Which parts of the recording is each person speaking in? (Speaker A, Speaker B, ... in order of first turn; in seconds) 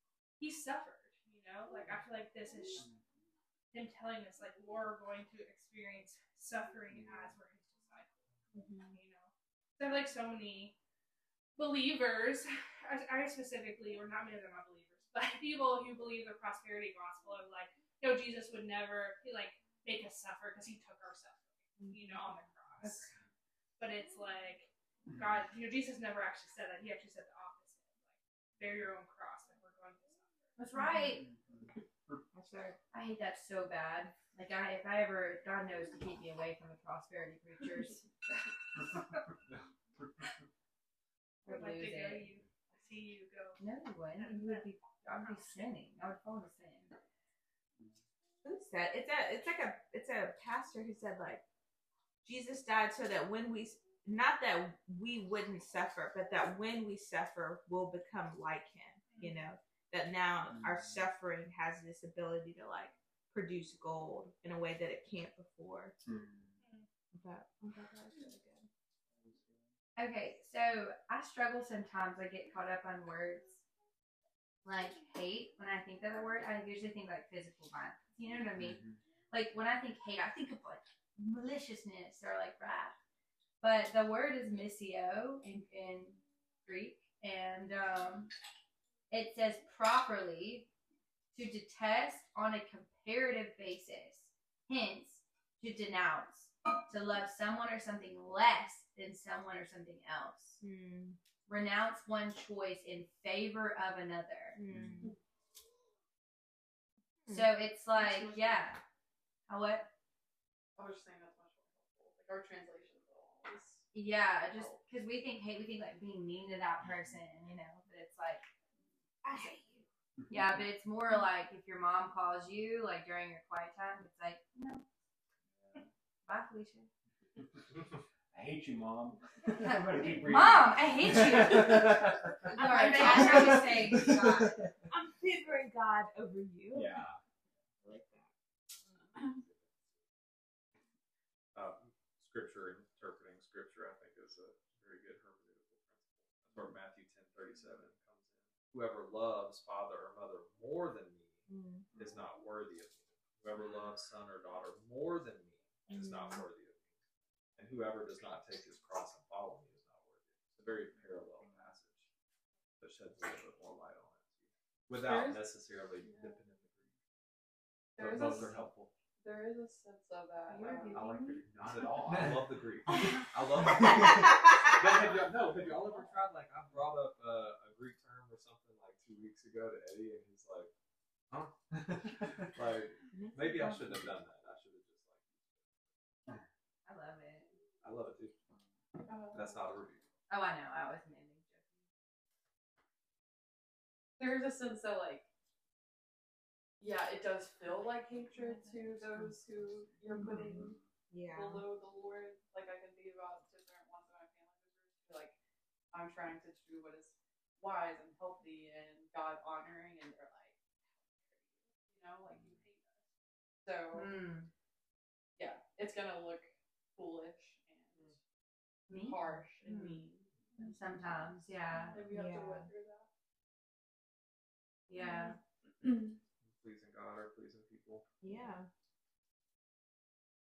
Speaker A: 0.4-2.9, 3.7-8.2, 8.8-10.8, 11.6-23.1, 23.8-30.5, 41.4-43.6, 44.1-45.6, 59.1-59.4
Speaker B: 6.9-7.3, 31.3-31.7, 60.5-61.1, 66.0-66.6, 69.2-69.7, 78.6-79.0, 104.7-105.1, 125.5-125.9, 128.3-134.1
Speaker C: 8.5-9.0, 30.7-31.2, 32.3-32.8, 48.4-51.4, 52.2-66.0, 67.1-68.7, 100.6-101.2, 104.5-105.1, 107.2-107.5, 119.2-119.8, 132.5-134.1, 134.9-137.0, 137.8-138.3, 151.5-151.9, 155.9-156.4, 174.1-174.6, 183.1-183.9, 200.1-201.7, 222.1-222.7, 228.2-228.7
Speaker D: 30.6-31.3, 32.9-38.1, 41.5-42.3, 43.6-46.9, 70.0-73.6, 74.6-82.9, 83.6-88.3, 89.1-90.7, 91.3-100.6, 101.5-104.6, 107.3-108.8, 109.5-109.9, 113.9-118.5, 120.3-124.8, 126.2-126.9, 129.6-131.9, 132.5-134.7, 170.5-171.4, 186.8-187.5, 190.3-191.6, 213.9-214.5, 218.9-220.1, 220.6-222.0, 224.9-225.4
Speaker E: 108.1-108.7, 110.8-113.8, 114.5-114.8, 164.9-165.4, 166.0-166.4, 168.0-171.1, 189.1-189.6, 194.2-195.2, 196.8-200.8, 201.3-205.3, 205.9-213.0, 213.6-214.1, 215.3-218.2, 218.9-223.1, 225.8-226.2
Speaker F: 136.7-137.2, 141.5-156.9, 157.6-162.1, 162.8-166.9, 167.9-168.9, 170.9-180.7, 181.3-185.8, 187.8-188.4, 189.3-190.0, 226.4-228.1